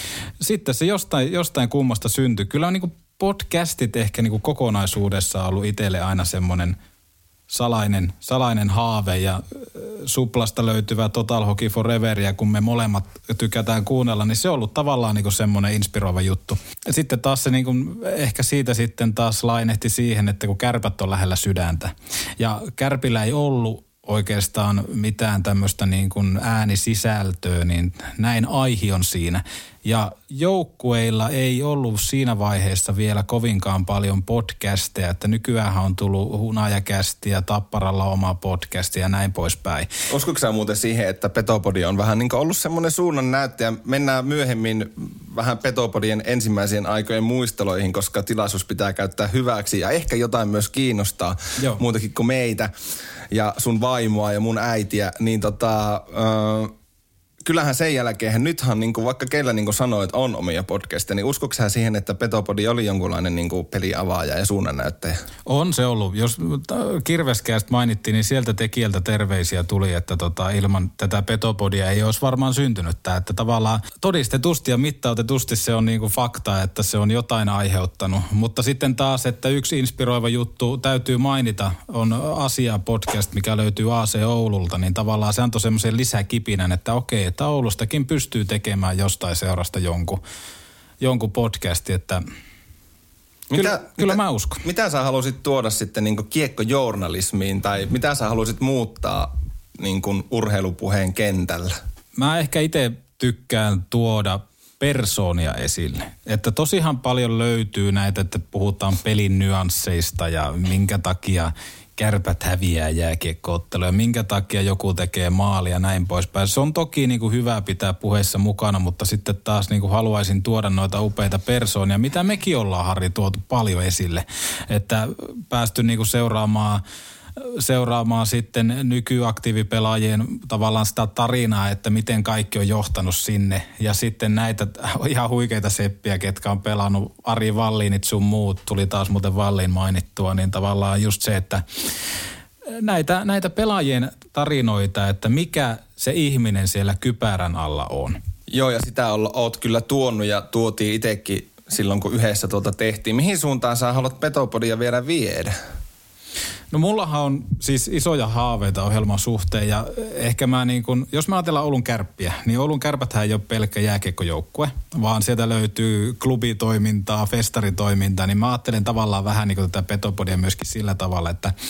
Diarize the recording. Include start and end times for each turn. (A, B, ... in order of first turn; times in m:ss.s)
0:00.4-0:06.8 A
0:07.5-0:39.9 A
0:40.1-0:52.7 B
0:53.3-0:56.7 B
0:57.4-1:05.2 B
1:05.4-1:30.2 A
1:31.0-1:32.2 A
1:33.5-1:41.7 B
1:33.5-1:34.6 A
1:42.2-2:06.8 A
2:07.4-2:21.6 A
2:22.7-2:28.2 A
2:28.5-2:35.5 B
2:36.7-2:51.5 A